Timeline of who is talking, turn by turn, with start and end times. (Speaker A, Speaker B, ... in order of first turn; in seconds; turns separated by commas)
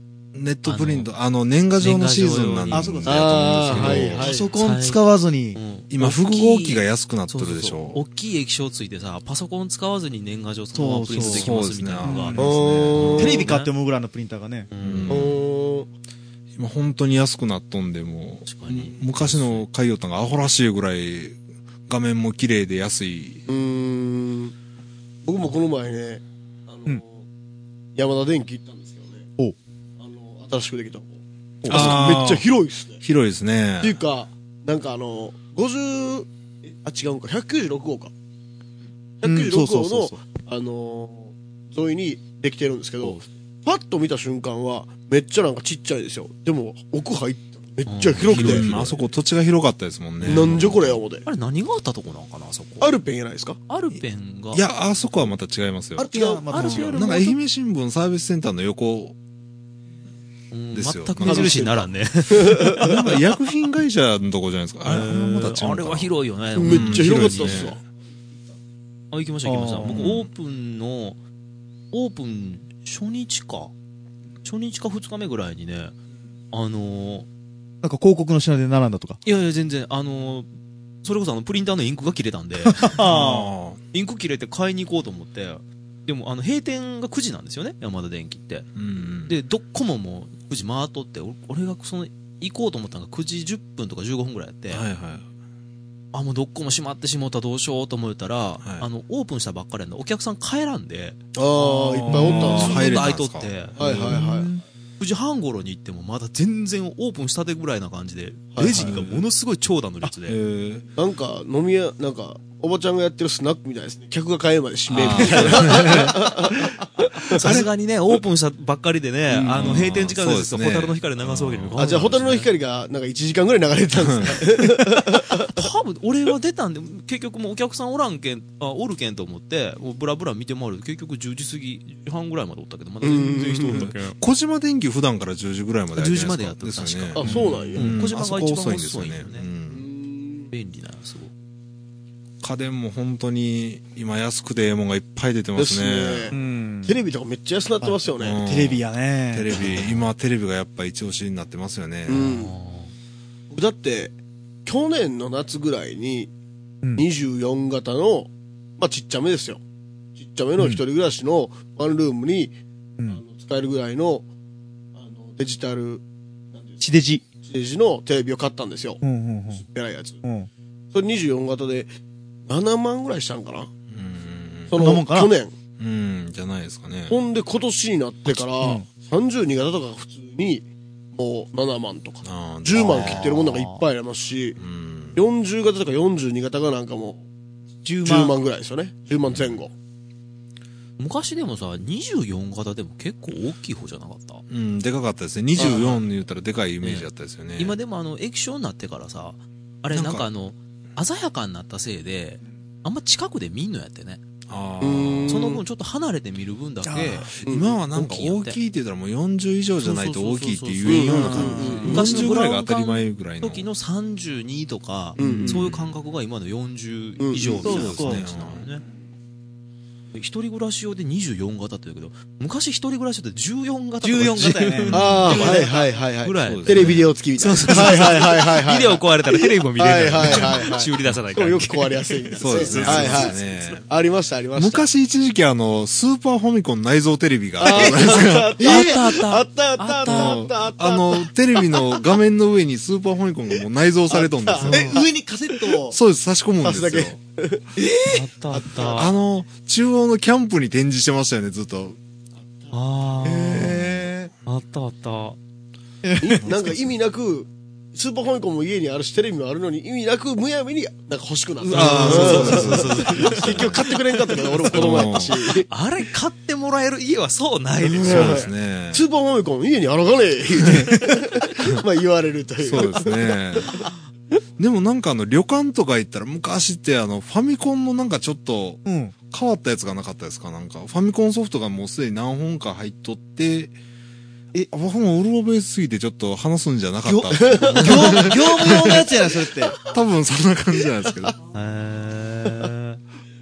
Speaker A: 0.3-4.2, Speaker B: 0.6-1.1, Speaker B: 1.8-5.0, Speaker C: 2.7-5.6, Speaker D: 3.0-4.5, Speaker B: 5.5-12.4, Speaker A: 5.9-8.0, Speaker C: 10.7-11.5, Speaker A: 11.2-13.5, Speaker C: 12.0-12.4, Speaker D: 12.4-13.5, Speaker B: 12.9-13.7, Speaker C: 13.2-14.7, Speaker B: 14.7-15.3, Speaker A: 14.8-15.4, Speaker D: 15.1-15.9, Speaker A: 16.6-23.4, Speaker B: 18.5-19.7, Speaker D: 23.5-24.5, Speaker D: 25.2-27.2, Speaker D: 27.9-29.2, Speaker D: 30.0-33.0, Speaker C: 31.6-32.0, Speaker A: 31.7-32.5, Speaker A: 33.0-34.0, Speaker D: 33.8-38.1, Speaker D: 39.2-48.7, Speaker C: 39.2-40.2, Speaker B: 43.0-43.3, Speaker B: 47.9-49.0, Speaker A: 48.2-51.0, Speaker D: 50.2-51.2, Speaker B: 51.2-52.9, Speaker D: 52.8-53.6, Speaker B: 53.7-54.6, Speaker A: 54.5-59.1, Speaker C: 56.0-57.0, Speaker B: 56.1-57.4, Speaker B: 60.5-63.0, Speaker A: 60.7-61.7, Speaker D: 61.2-63.0, Speaker A: 62.8-67.8, Speaker B: 64.8-67.7, Speaker D: 66.5-67.8, Speaker B: 69.1-71.2, Speaker C: 69.4-70.0, Speaker A: 69.8-70.3, Speaker B: 71.9-73.7, Speaker B: 74.4-76.0, Speaker B: 76.5-77.3, Speaker C: 77.8-79.2, Speaker B: 79.2-80.5, Speaker B: 81.0-83.0, Speaker C: 82.7-83.5, Speaker A: 83.0-83.8, Speaker B: 83.9-88.7, Speaker A: 88.7-89.4, Speaker B: 89.3-94.8, Speaker A: 94.7-95.2, Speaker B: 96.1-103.8, Speaker A: 98.6-98.9, Speaker D: 101.3-103.0, Speaker A: 102.0-104.2, Speaker D: 103.8-104.5, Speaker C: 104.0-104.6, Speaker B: 105.0-110.4, Speaker D: 108.5-108.9, Speaker A: 108.7-109.2, Speaker A: 110.2-110.8, Speaker D: 111.0-117.4, Speaker A: 114.9-116.7, Speaker B: 114.9-116.0, Speaker A: 117.3-117.7, Speaker B: 117.3-122.5, Speaker A: 119.4-121.8, Speaker D: 121.8-125.3, Speaker A: 124.0-124.4, Speaker B: 125.3-134.2, Speaker D: 133.0-133.9, Speaker A: 133.7-139.9, Speaker B: 135.9-139.5, Speaker D: 137.2-138.0, Speaker D: 139.7-140.5, Speaker B: 140.5-141.3, Speaker A: 142.4-146.3, Speaker D: 145.6-148.4, Speaker C: 146.3-147.0, Speaker C: 147.8-149.9, Speaker A: 148.2-152.4, Speaker B: 149.5-150.1, Speaker D: 152.1-152.5, Speaker B: 152.2-152.9, Speaker D: 153.5-154.1, Speaker D: 154.7-156.3, Speaker C: 156.8-157.1, Speaker D: 156.9-159.6, Speaker D: 160.2-162.5, Speaker D: 163.1-164.2, Speaker D: 164.9-166.0, Speaker D: 166.5-166.8, Speaker C: 166.8-167.2, Speaker D: 167.4-169.0, Speaker C: 169.0-169.7, Speaker D: 169.6-170.2, Speaker C: 170.2-170.5, Speaker D: 170.9-171.9, Speaker D: 172.5-173.7, Speaker A: 173.9-174.7, Speaker D: 174.7-175.5, Speaker C: 174.8-175.3, Speaker A: 175.8-177.2, Speaker D: 177.1-184.6, Speaker C: 178.2-178.9, Speaker A: 182.2-183.4, Speaker C: 182.8-183.8, Speaker A: 184.6-185.2, Speaker D: 185.2-187.2, Speaker C: 187.8-188.4, Speaker D: 188.0-189.7, Speaker A: 189.3-189.6, Speaker B: 191.0-194.4, Speaker A: 194.5-197.8, Speaker D: 195.6-196.0, Speaker B: 196.8-197.1, Speaker B: 197.6-204.2, Speaker A: 199.9-200.2, Speaker A: 204.5-205.6, Speaker D: 204.8-205.6, Speaker B: 205.3-207.4, Speaker C: 206.8-207.3, Speaker A: 207.3-213.7, Speaker D: 207.4-207.7, Speaker B: 207.9-208.6, Speaker B: 209.8-218.8, Speaker D: 210.9-212.2, Speaker C: 211.3-212.2, Speaker D: 215.2-215.6, Speaker A: 215.2-215.9, Speaker D: 217.2-217.7, Speaker A: 217.6-218.6, Speaker C: 217.6-218.3, Speaker B: 220.1-233.4, Speaker C: 224.0-225.7, Speaker A: 224.8-225.6, Speaker D: 224.9-234.8, Speaker A: 226.4-227.1, Speaker A: 227.7-228.0, Speaker A: 230.2-231.2, Speaker A: 232.4-233.9, Speaker A: 234.6-238.6, Speaker D: 237.6-242.0, Speaker C: 237.7-238.1, Speaker B: 238.6-240.4, Speaker C: 238.6-238.9, Speaker A: 240.1-245.0, Speaker D: 244.1-245.1, Speaker C: 244.6-246.0, Speaker B: 244.7-244.9, Speaker A: 245.9-247.2, Speaker D: 246.6-247.7, Speaker C: 247.8-248.2, Speaker B: 248.1-249.1, Speaker D: 248.5-249.1, Speaker A: 248.9-252.0, Speaker B: 252.7-253.8, Speaker C: 253.2-254.3, Speaker A: 253.5-254.2, Speaker B: 254.4-255.4, Speaker C: 256.0-256.5, Speaker D: 256.2-265.7, Speaker A: 256.4-256.9, Speaker A: 261.7-263.9, Speaker B: 261.7-268.5, Speaker C: 261.7-262.8, Speaker A: 264.6-265.5, Speaker D: 267.8-273.9, Speaker A: 268.0-269.0, Speaker C: 270.6-271.2, Speaker A: 272.6-273.8, Speaker A: 274.6-283.7, Speaker C: 278.8-279.1, Speaker A: 284.7-289.1, Speaker C: 287.0-289.8, Speaker D: 287.4-289.0, Speaker A: 289.9-291.4, Speaker B: 291.5-293.0